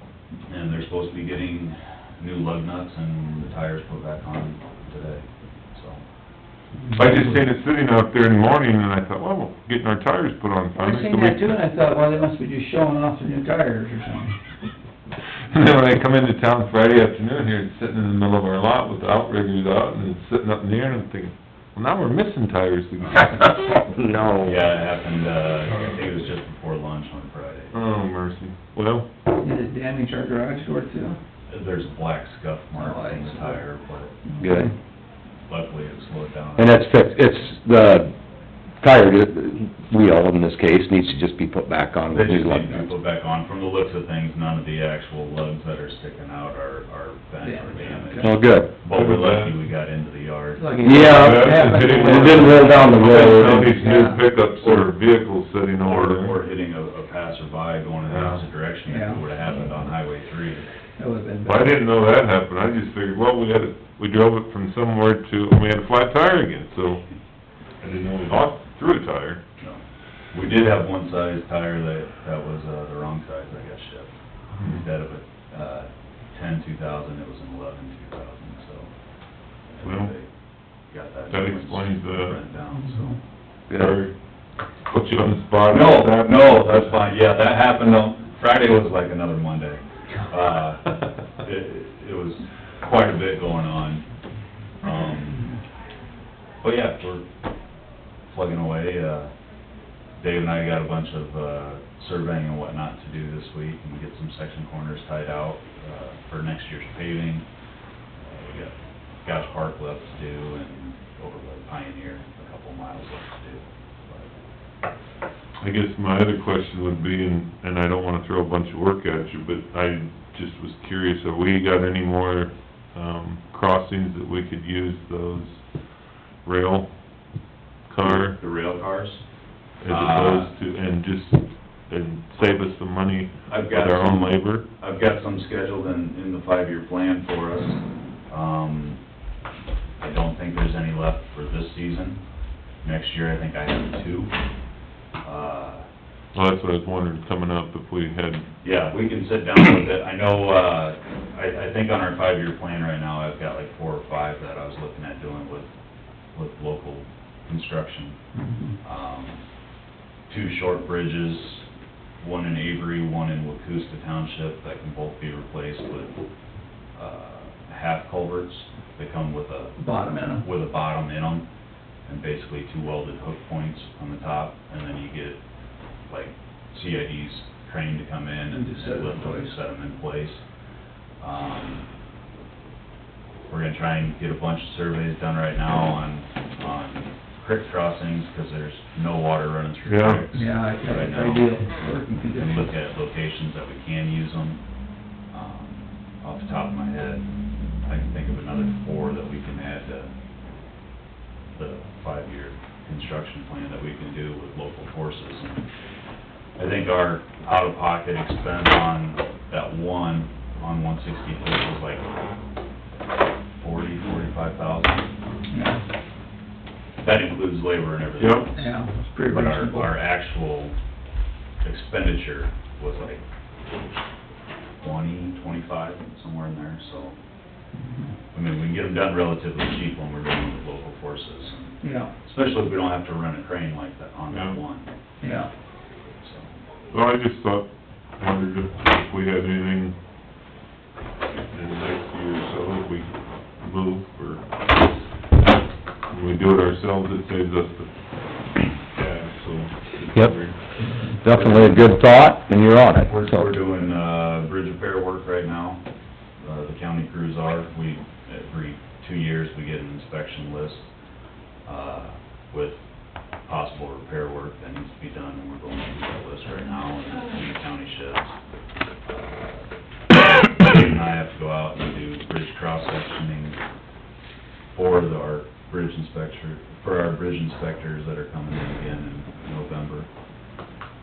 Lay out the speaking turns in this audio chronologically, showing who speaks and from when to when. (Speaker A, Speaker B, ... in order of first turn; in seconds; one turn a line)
Speaker A: 0.5-6.0
Speaker B: 6.8-7.2
Speaker C: 7.0-11.5
Speaker B: 10.8-14.3
Speaker C: 15.5-23.5
Speaker A: 23.0-23.3
Speaker D: 23.9-24.6
Speaker A: 24.4-27.7
Speaker C: 27.7-29.1
Speaker B: 29.4-31.2
Speaker A: 31.5-34.1
Speaker B: 32.8-33.6
Speaker B: 34.3-34.6
Speaker D: 34.4-34.7
Speaker A: 35.5-36.9
Speaker D: 36.6-38.1
Speaker D: 38.8-42.9
Speaker A: 42.1-53.5
Speaker B: 47.4-48.3
Speaker D: 48.2-48.7
Speaker C: 48.9-49.6
Speaker B: 50.6-53.0
Speaker D: 50.8-53.7
Speaker C: 51.1-56.3
Speaker B: 53.6-54.2
Speaker A: 54.6-54.9
Speaker A: 55.8-60.6
Speaker C: 58.0-58.4
Speaker B: 58.9-59.2
Speaker B: 61.0-61.7
Speaker C: 61.4-67.0
Speaker C: 67.8-69.4
Speaker A: 69.6-78.9
Speaker C: 74.5-74.8
Speaker A: 79.7-80.3
Speaker C: 79.8-80.1
Speaker A: 80.9-83.1
Speaker C: 81.3-82.4
Speaker B: 82.7-83.1
Speaker D: 83.7-84.0
Speaker C: 83.7-84.1
Speaker C: 84.9-87.0
Speaker A: 85.7-94.0
Speaker A: 94.8-95.5
Speaker A: 96.6-97.2
Speaker A: 98.3-99.3
Speaker A: 100.2-107.5
Speaker A: 108.2-114.3
Speaker C: 115.6-125.6
Speaker C: 126.4-126.9
Speaker C: 127.9-128.4
Speaker A: 128.0-129.2
Speaker C: 129.8-134.7
Speaker A: 129.8-130.5
Speaker A: 133.5-139.0
Speaker A: 140.0-142.2
Speaker A: 142.8-144.3
Speaker A: 145.2-145.8
Speaker C: 146.3-148.4
Speaker A: 148.6-155.7
Speaker A: 156.3-158.2
Speaker B: 158.3-158.8
Speaker A: 158.8-159.4
Speaker A: 160.3-161.7
Speaker A: 162.2-166.1
Speaker A: 166.9-169.8
Speaker B: 169.8-170.4
Speaker A: 170.3-171.5
Speaker A: 172.1-175.4
Speaker A: 176.1-180.4
Speaker B: 178.5-179.5
Speaker A: 181.2-181.9
Speaker A: 183.5-191.6
Speaker C: 189.8-190.2
Speaker B: 190.3-192.7
Speaker A: 192.3-194.6
Speaker A: 195.3-197.2
Speaker A: 197.8-200.1
Speaker A: 201.5-205.7
Speaker A: 206.6-212.1
Speaker A: 213.6-215.1
Speaker B: 215.5-215.8
Speaker A: 217.0-218.7
Speaker C: 218.2-218.4
Speaker B: 218.6-219.9
Speaker A: 219.3-220.7
Speaker A: 221.6-223.2
Speaker A: 224.8-227.2
Speaker B: 227.8-228.1
Speaker A: 228.3-234.9
Speaker B: 231.8-232.1
Speaker C: 234.3-234.6
Speaker B: 235.2-235.5
Speaker A: 236.2-236.5
Speaker C: 236.9-237.7
Speaker C: 238.2-239.9
Speaker C: 241.5-244.4
Speaker C: 246.1-247.9
Speaker C: 248.9-250.6
Speaker D: 251.2-253.5
Speaker A: 251.2-251.9
Speaker A: 253.0-255.8
Speaker A: 256.4-260.9
Speaker A: 261.6-262.8
Speaker A: 263.4-268.4
Speaker A: 269.1-273.6
Speaker A: 274.7-280.1